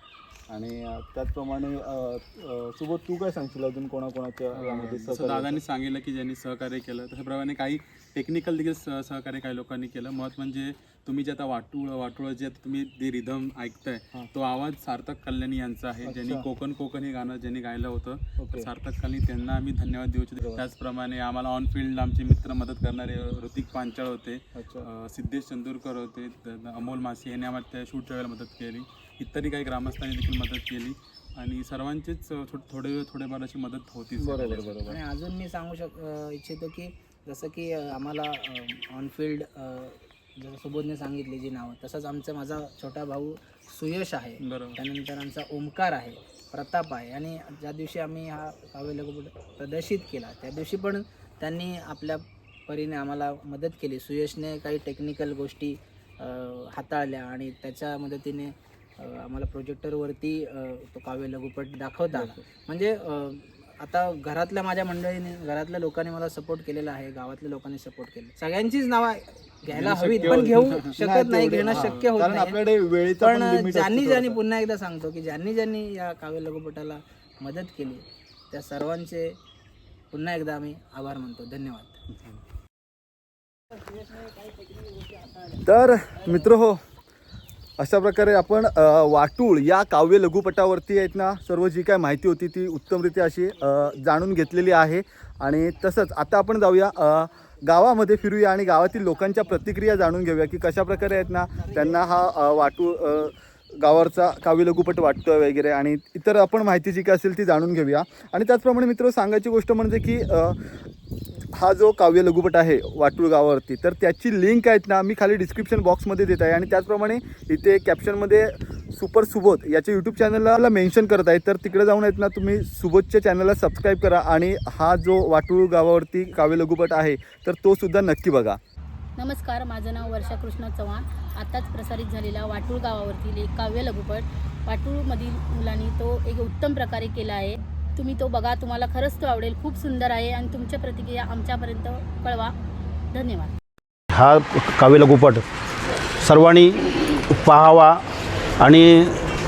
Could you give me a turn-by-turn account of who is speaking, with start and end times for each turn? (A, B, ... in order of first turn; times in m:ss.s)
0:00.5-0:05.6 A
0:04.5-0:34.9 B
0:16.1-0:16.4 A
0:18.4-0:18.7 A
0:34.2-0:34.9 A
0:34.8-1:12.6 C
0:44.4-0:44.8 B
1:09.7-1:14.4 A
1:13.2-1:19.4 C
1:20.1-1:22.0 C
1:24.8-1:25.5 C
1:25.6-1:26.8 A
1:27.8-1:50.6 A
1:51.5-2:08.6 A
2:09.2-2:22.5 D
2:23.1-2:23.5 D
2:24.1-2:25.4 E
2:26.2-2:28.0 E
2:28.6-2:29.3 E